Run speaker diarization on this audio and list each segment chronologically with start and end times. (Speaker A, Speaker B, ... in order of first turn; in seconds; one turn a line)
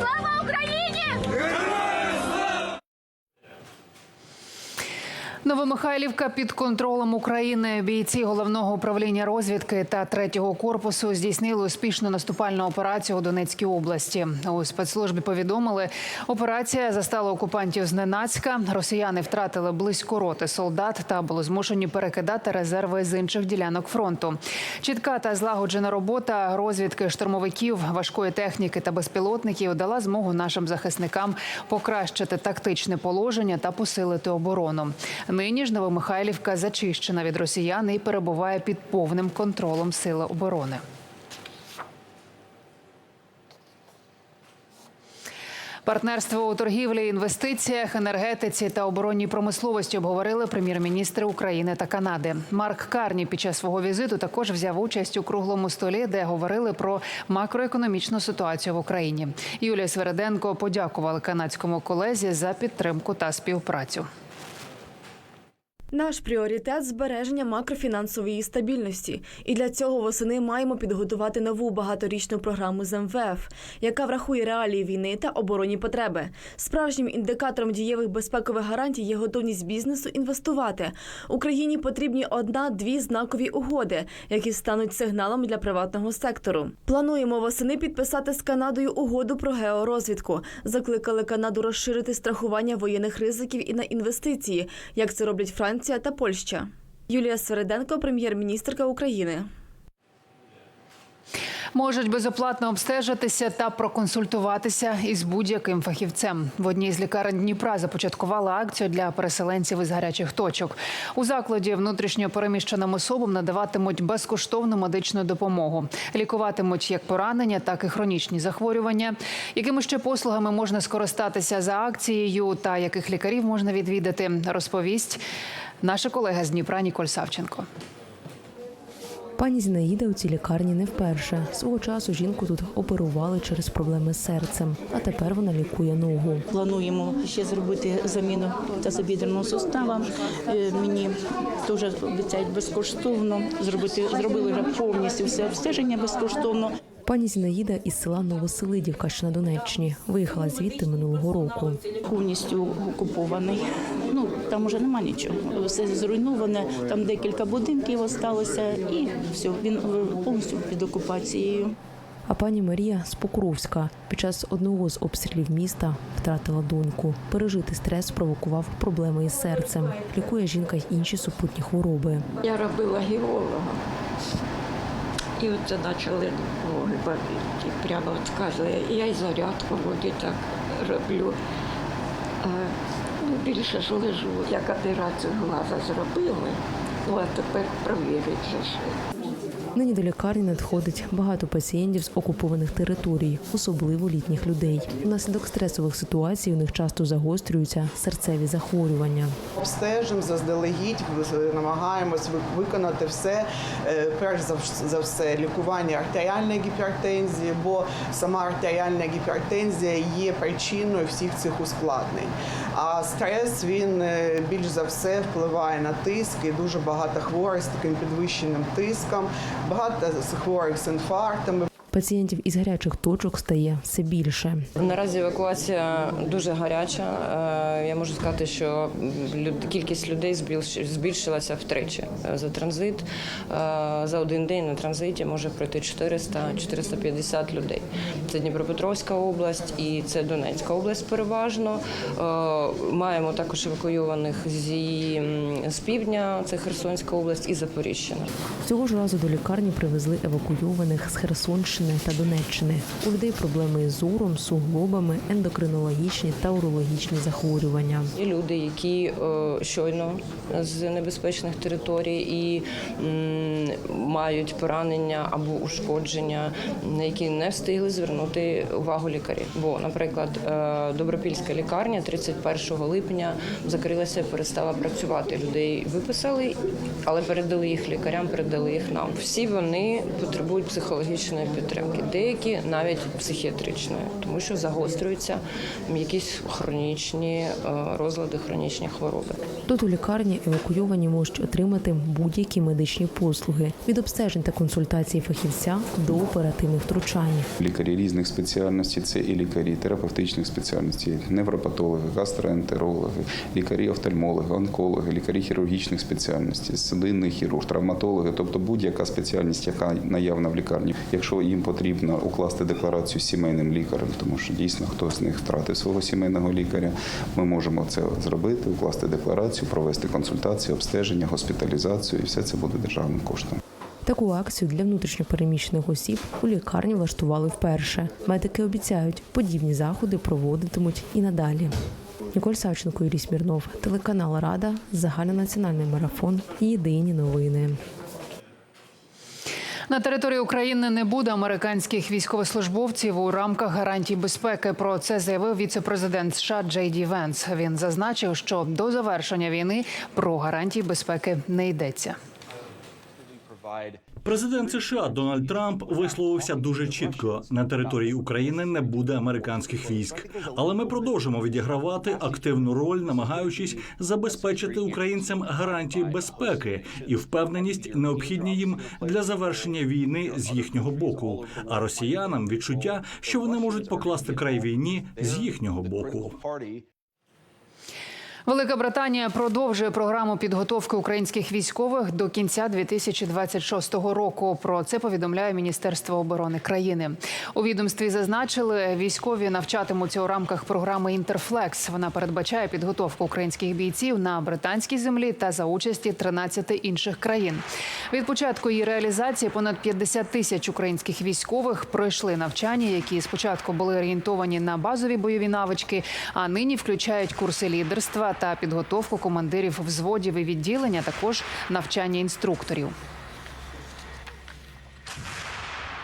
Speaker A: 5.4-40.8
Speaker A: 45.8-64.1
Speaker B: 65.9-99.5
Speaker A: 101.7-125.2
Speaker A: 125.8-127.7
Speaker C: 129.4-136.4
Speaker D: 136.5-146.7
Speaker C: 147.1-151.9
Speaker D: 152.0-161.7
Speaker C: 162.3-172.2
Speaker E: 172.4-173.8
Speaker E: 175.4-181.4
Speaker E: 182.4-188.9
Speaker C: 189.7-199.3
Speaker F: 199.6-221.7
Speaker C: 221.9-224.6
Speaker G: 224.8-248.3
Speaker C: 248.6-258.1
Speaker G: 258.2-289.4
Speaker C: 289.7-297.5
Speaker H: 297.6-323.6
Speaker C: 324.1-331.7
Speaker C: 332.3-337.8
Speaker A: 339.9-352.1
Speaker I: 354.2-376.4
Speaker F: 359.6-361.4
Speaker F: 362.2-363.4
Speaker F: 364.3-369.5
Speaker F: 370.8-371.0
Speaker A: 378.5-412.9